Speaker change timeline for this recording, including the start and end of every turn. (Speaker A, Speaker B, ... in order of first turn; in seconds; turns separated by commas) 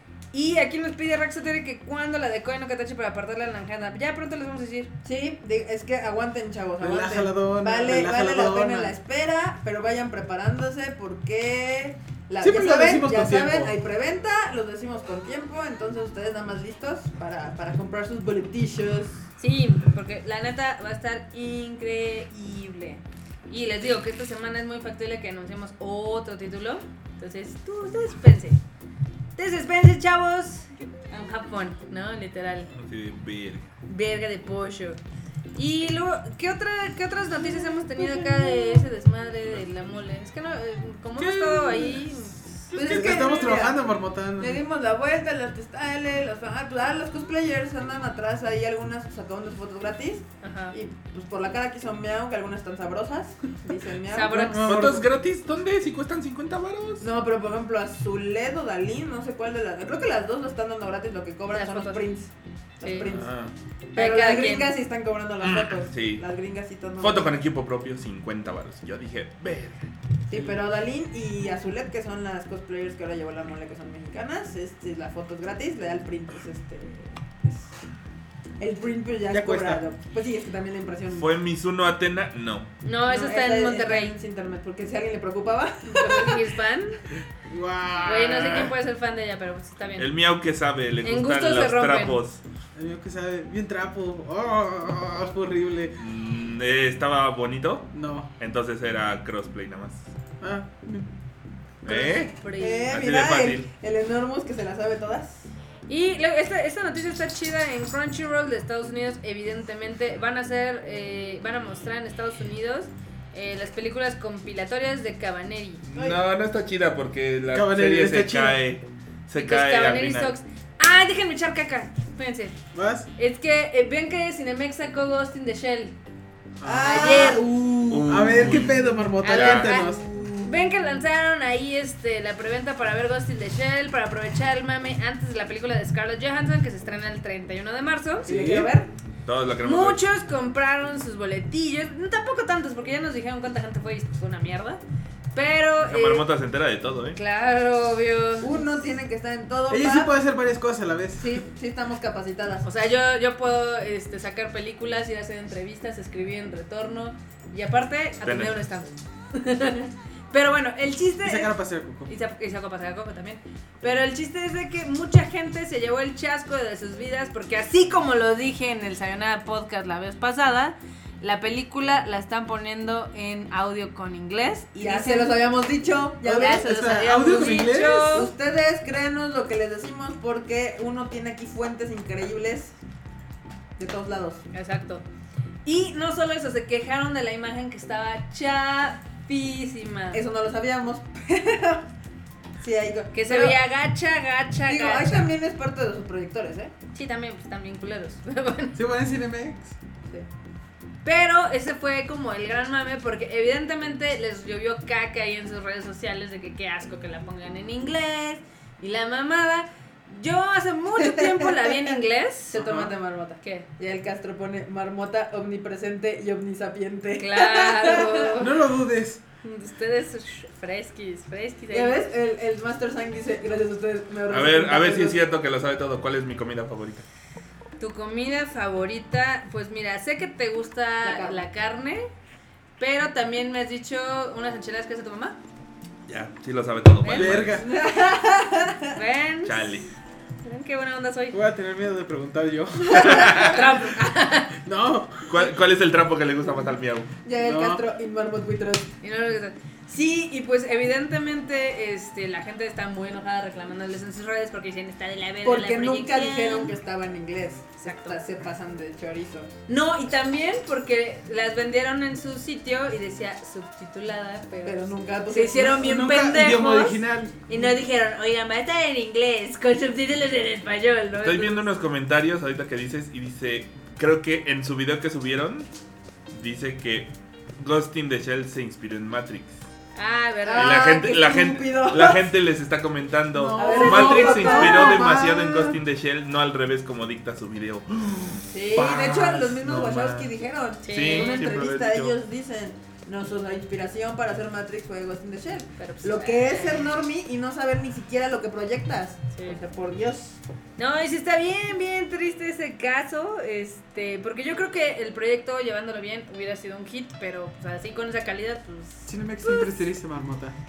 Speaker A: 0.3-4.9, Speaker B: 5.0-19.2, Speaker C: 6.8-9.0, Speaker C: 12.4-13.7, Speaker A: 19.4-28.6, Speaker A: 29.4-32.7, Speaker D: 32.7-33.7, Speaker A: 33.9-35.0, Speaker A: 35.5-43.0, Speaker B: 38.0-38.8, Speaker C: 41.3-42.0, Speaker D: 41.6-41.9, Speaker B: 42.7-54.5, Speaker C: 42.8-44.6, Speaker A: 50.4-50.7, Speaker A: 54.1-54.7, Speaker C: 54.2-55.0, Speaker D: 54.6-57.1, Speaker B: 57.0-63.3, Speaker A: 61.5-62.1, Speaker A: 62.8-63.1, Speaker D: 63.0-63.5, Speaker A: 63.9-64.7, Speaker B: 63.9-67.3, Speaker D: 65.4-66.2, Speaker D: 67.0-69.8, Speaker B: 70.3-77.7, Speaker B: 78.6-81.3, Speaker C: 79.3-79.8, Speaker D: 81.1-82.7, Speaker A: 82.8-84.1, Speaker B: 83.1-86.5, Speaker A: 85.9-87.0, Speaker C: 87.5-88.7, Speaker A: 88.0-90.1, Speaker D: 90.0-92.4, Speaker A: 91.0-92.2, Speaker C: 92.7-96.0, Speaker D: 96.0-100.1, Speaker C: 97.9-98.3, Speaker C: 100.4-101.1, Speaker D: 101.8-102.3, Speaker A: 101.8-102.9, Speaker B: 102.5-105.5, Speaker D: 102.9-103.7, Speaker A: 105.9-115.8, Speaker D: 115.8-120.3, Speaker B: 115.9-116.2, Speaker C: 117.5-118.6, Speaker A: 119.4-122.6, Speaker C: 122.7-123.1, Speaker A: 123.1-126.0, Speaker C: 126.6-130.2, Speaker B: 126.6-128.0, Speaker A: 126.8-127.5, Speaker D: 127.9-128.8, Speaker A: 129.2-138.3, Speaker D: 129.3-129.8, Speaker B: 129.8-130.7, Speaker C: 138.2-138.7, Speaker B: 138.2-138.9, Speaker D: 139.2-140.0, Speaker A: 139.6-144.8, Speaker A: 145.3-146.3, Speaker D: 145.8-147.2, Speaker A: 147.1-148.5, Speaker B: 148.4-150.1, Speaker C: 149.7-151.4, Speaker B: 151.2-152.7, Speaker A: 152.6-175.4, Speaker D: 158.2-158.6, Speaker C: 161.2-162.1, Speaker B: 174.8-176.7, Speaker C: 176.2-178.2, Speaker A: 176.2-178.3, Speaker B: 178.1-182.7, Speaker B: 183.8-184.4, Speaker A: 184.5-185.0, Speaker A: 185.6-190.2, Speaker B: 190.1-191.9, Speaker B: 192.6-193.6, Speaker A: 193.1-195.3, Speaker B: 194.7-196.7, Speaker A: 196.9-198.8, Speaker C: 198.7-199.7, Speaker A: 201.0-212.6, Speaker B: 211.0-211.9, Speaker B: 212.5-218.3, Speaker C: 212.6-212.9, Speaker A: 213.4-213.7, Speaker A: 217.2-218.6, Speaker C: 218.4-219.2, Speaker A: 219.4-221.9, Speaker B: 221.7-225.3, Speaker D: 224.3-227.0, Speaker A: 227.8-232.1, Speaker B: 231.0-231.4, Speaker A: 232.8-235.4, Speaker D: 236.1-237.6, Speaker A: 237.0-237.7, Speaker C: 237.1-237.7, Speaker B: 237.6-238.9, Speaker A: 238.9-239.7, Speaker D: 239.4-239.9, Speaker A: 240.4-241.4, Speaker C: 241.3-243.5, Speaker D: 242.9-243.6, Speaker B: 243.0-243.4, Speaker A: 243.4-244.5, Speaker C: 244.6-245.4, Speaker D: 245.2-247.1, Speaker B: 247.2-248.9, Speaker C: 247.4-247.8, Speaker A: 249.0-256.7, Speaker B: 255.4-259.5, Speaker A: 257.8-258.2, Speaker A: 259.7-271.6, Speaker B: 264.6-265.8, Speaker C: 265.6-267.4, Speaker D: 271.2-275.7, Speaker D: 276.3-279.6, Speaker A: 279.9-280.8, Speaker B: 280.4-282.2, Speaker D: 280.5-290.3, Speaker C: 283.3-285.8, Speaker B: 283.6-285.2, Speaker B: 288.5-300.4, Speaker A: 290.8-291.6, Speaker D: 290.9-292.2, Speaker A: 295.8-297.0, Speaker A: 299.3-299.6, Speaker A: 300.8-309.8, Speaker C: 309.1-310.6